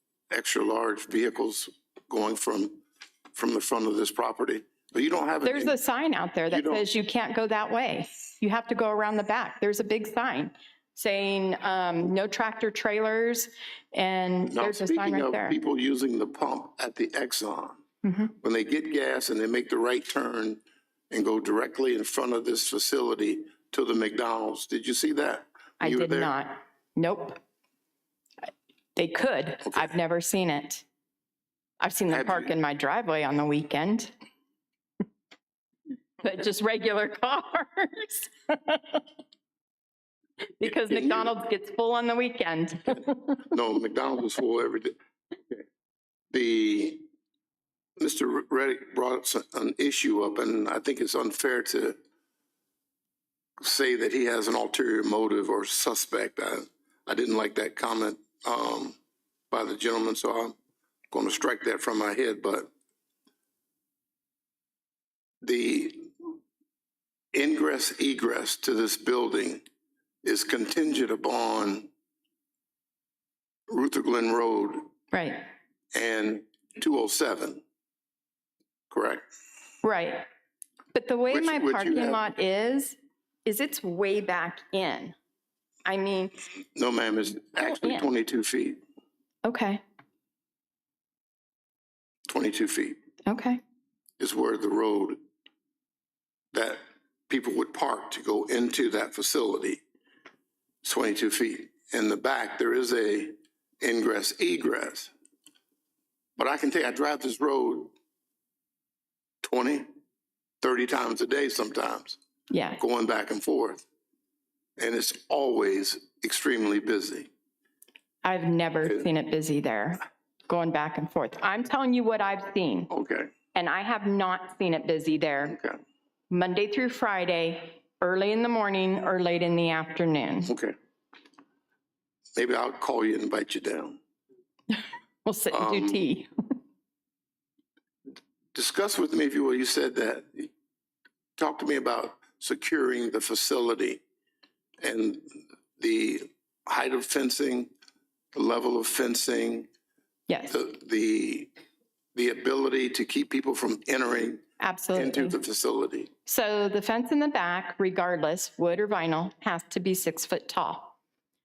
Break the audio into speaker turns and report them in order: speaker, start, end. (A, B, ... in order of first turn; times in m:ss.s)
0:00.3-0:05.8 A
0:05.4-0:15.6 B
0:06.5-0:06.8 A
0:14.5-0:17.8 A
0:18.0-0:18.3 B
0:18.4-0:26.3 A
0:25.8-0:27.4 B
0:29.0-0:30.8 B
0:31.8-0:34.1 B
0:32.1-0:32.5 A
0:36.2-0:39.0 B
0:40.6-0:43.4 B
0:40.6-0:41.3 A
0:43.5-0:44.9 A
0:46.3-0:47.0 A
0:48.0-0:52.0 A
0:53.6-0:59.0 A
0:59.5-1:00.5 A
1:01.1-1:02.7 A
1:05.4-1:06.1 A
1:07.3-1:09.6 A
1:10.2-1:11.9 A
1:13.7-1:14.9 A
1:15.1-1:15.4 B
1:15.9-1:17.6 A
1:18.9-1:19.2 A
1:19.8-1:20.2 B
1:20.9-1:25.1 B
1:21.3-1:22.2 A
1:25.8-1:26.3 B
1:26.8-1:28.8 A
1:27.6-1:28.1 B
1:29.4-1:29.8 B
1:32.3-1:33.0 A
1:33.3-1:33.6 B
1:34.2-1:35.2 A
1:36.5-1:39.8 A
1:40.8-1:45.1 A
1:46.4-1:47.9 A
1:49.4-1:49.9 A
1:50.6-1:52.2 A
1:52.5-1:52.8 B
1:52.8-1:53.8 A
1:54.8-1:57.3 A
1:58.2-2:02.9 B
2:02.9-2:03.3 A
2:03.5-2:05.6 B
2:05.5-2:05.8 A
2:06.3-2:10.5 B
2:10.5-2:10.7 A
2:12.4-2:14.0 A
2:14.7-2:16.3 B
2:15.5-2:16.0 A
2:18.5-2:20.5 A
2:21.4-2:24.0 A
2:24.8-2:27.7 A
2:28.3-2:29.7 A
2:30.3-2:30.5 B
2:30.5-2:31.5 A
2:32.1-2:34.4 A
2:34.6-2:35.4 B
2:34.9-2:36.1 A
2:36.2-2:41.0 B